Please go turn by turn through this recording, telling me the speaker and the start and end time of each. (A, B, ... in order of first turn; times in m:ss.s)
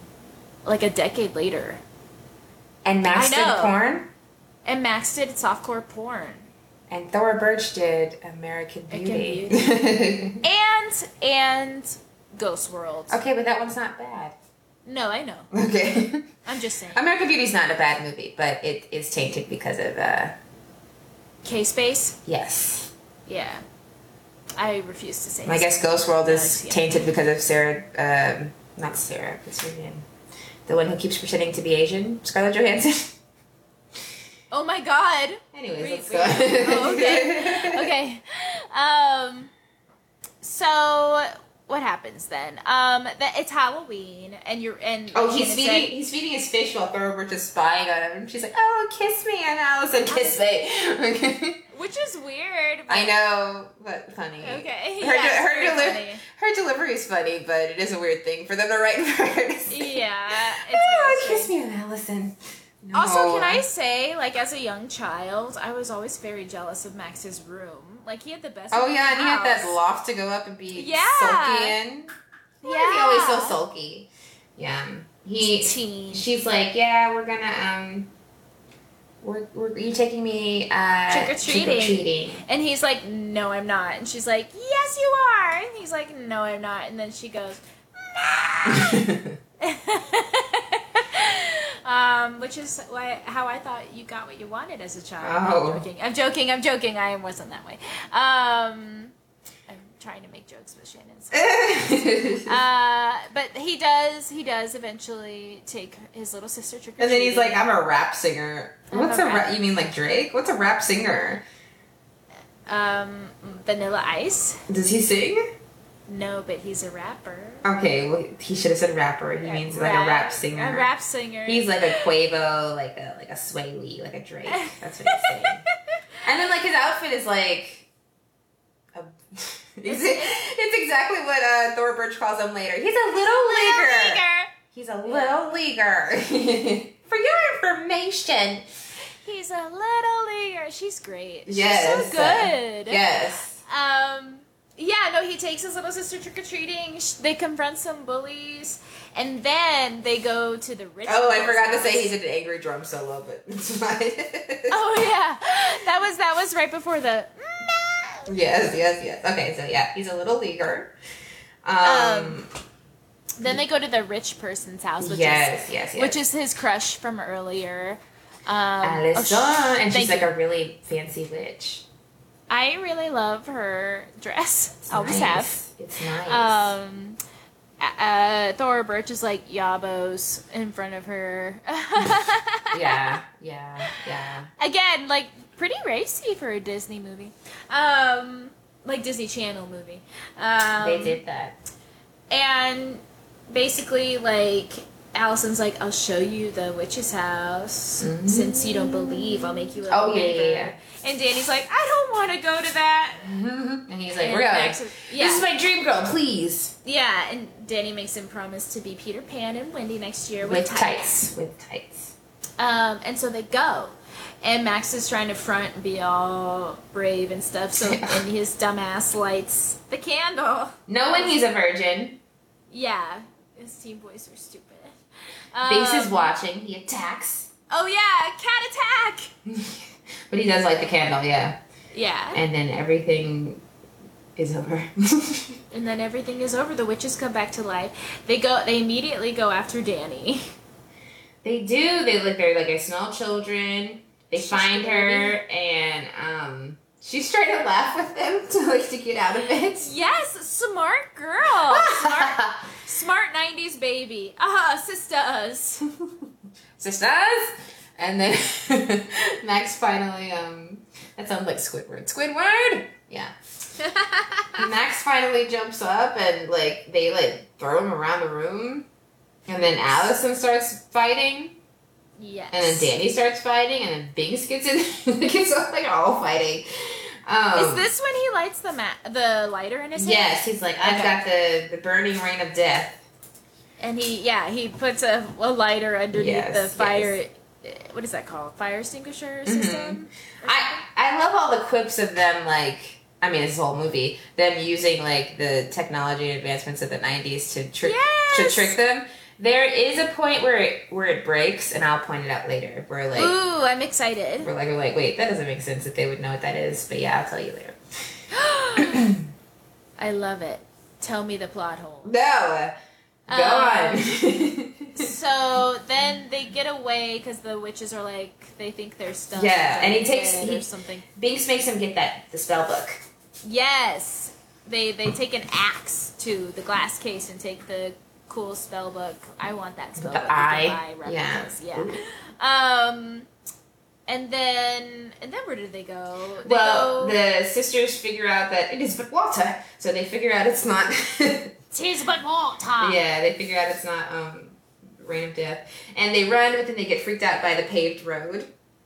0:00.6-0:01.8 A
0:02.8-0:04.1 B
0:03.1-0:03.8 A
0:04.6-0:06.5 A
0:06.9-0:10.4 B
0:08.9-0:09.8 A
0:10.4-0:13.2 A
0:13.1-0:14.4 B
0:14.8-0:15.5 A
0:15.5-0:16.3 B
0:16.4-0:17.0 A
0:16.9-0:20.4 B
0:21.4-0:22.2 A
0:22.2-0:22.9 B
0:23.3-0:23.6 A
0:24.6-0:27.1 A
0:25.4-0:30.1 B
0:30.6-0:33.2 B
0:34.5-0:39.5 A
0:35.5-0:37.9 B
0:40.4-0:45.9 A
0:45.1-0:51.6 B
0:50.1-0:50.4 A
0:51.7-0:53.1 A
0:52.9-1:03.6 B
0:54.4-0:56.2 A
0:59.7-1:01.5 A
1:02.9-1:09.8 A
1:08.7-1:12.1 B
1:10.7-1:11.8 A
1:12.6-1:13.6 A
1:12.6-1:18.1 B
1:15.4-1:16.3 A
1:19.2-1:22.4 B
1:21.1-1:39.1 A
1:28.7-1:29.4 B
1:35.2-1:35.8 B
1:39.7-1:41.9 A
1:41.3-1:42.6 B
1:42.4-1:47.6 A
1:47.0-1:51.4 B
1:48.9-1:49.5 A
1:52.7-1:54.6 A
1:54.7-1:55.4 B
1:56.1-1:57.6 A
1:57.6-2:00.9 B
1:59.4-2:02.1 A
2:01.4-2:05.6 B
2:04.5-2:06.0 A
2:06.2-2:07.9 B
2:08.9-2:18.6 B
2:09.8-2:10.4 A
2:13.1-2:14.5 A
2:15.0-2:15.4 A
2:19.2-2:23.0 A
2:21.5-2:23.6 B
2:23.6-2:32.1 A
2:31.0-2:34.8 B
2:34.7-2:38.3 A
2:38.3-2:40.9 B
2:41.6-2:42.5 B
2:41.8-2:42.4 A
2:43.4-2:50.3 A
2:45.0-2:46.2 B
2:48.8-2:51.8 B
2:52.5-2:55.6 A
2:54.9-2:56.7 B
2:56.2-2:57.2 A
2:57.8-3:03.1 A
3:02.7-3:04.5 B
3:04.6-3:11.2 A
3:10.8-3:11.6 B
3:12.3-3:23.3 A
3:18.0-3:20.8 B
3:23.2-3:26.7 B
3:24.2-3:25.4 A
3:26.8-3:31.1 A
3:30.4-3:32.2 B
3:32.6-3:41.4 A
3:37.8-3:38.2 B
3:40.9-3:42.2 B
3:42.7-3:45.0 A
3:45.5-3:46.3 A
3:45.6-3:47.5 B
3:47.7-3:49.3 A
3:49.4-3:51.6 B
3:51.9-3:52.4 A
3:52.3-3:53.6 B
3:54.4-3:55.6 B
3:55.7-4:00.4 A
4:01.4-4:09.9 B
4:04.4-4:05.4 A
4:09.8-4:15.9 A
4:11.7-4:12.6 B
4:16.8-4:23.3 B
4:23.8-4:24.6 A
4:24.6-4:28.9 B
4:29.5-4:31.6 B
4:32.2-4:32.9 A
4:32.5-4:37.9 B
4:37.6-4:41.2 A
4:40.0-4:43.0 B
4:43.8-4:50.8 A
4:46.1-4:47.2 B
4:49.4-5:03.3 B
4:57.8-4:58.7 A
5:03.1-5:04.5 A
5:04.4-5:07.8 B
5:08.3-5:09.1 A
5:08.8-5:09.2 B
5:10.0-5:12.1 A
5:12.0-5:12.7 B
5:13.3-5:14.0 A
5:13.3-5:15.1 B
5:15.0-5:21.0 A
5:19.3-5:23.0 B
5:23.4-5:33.3 A
5:30.0-5:32.0 B
5:34.1-5:37.2 A
5:36.4-5:41.5 B
5:41.7-5:43.0 A
5:42.8-5:48.5 B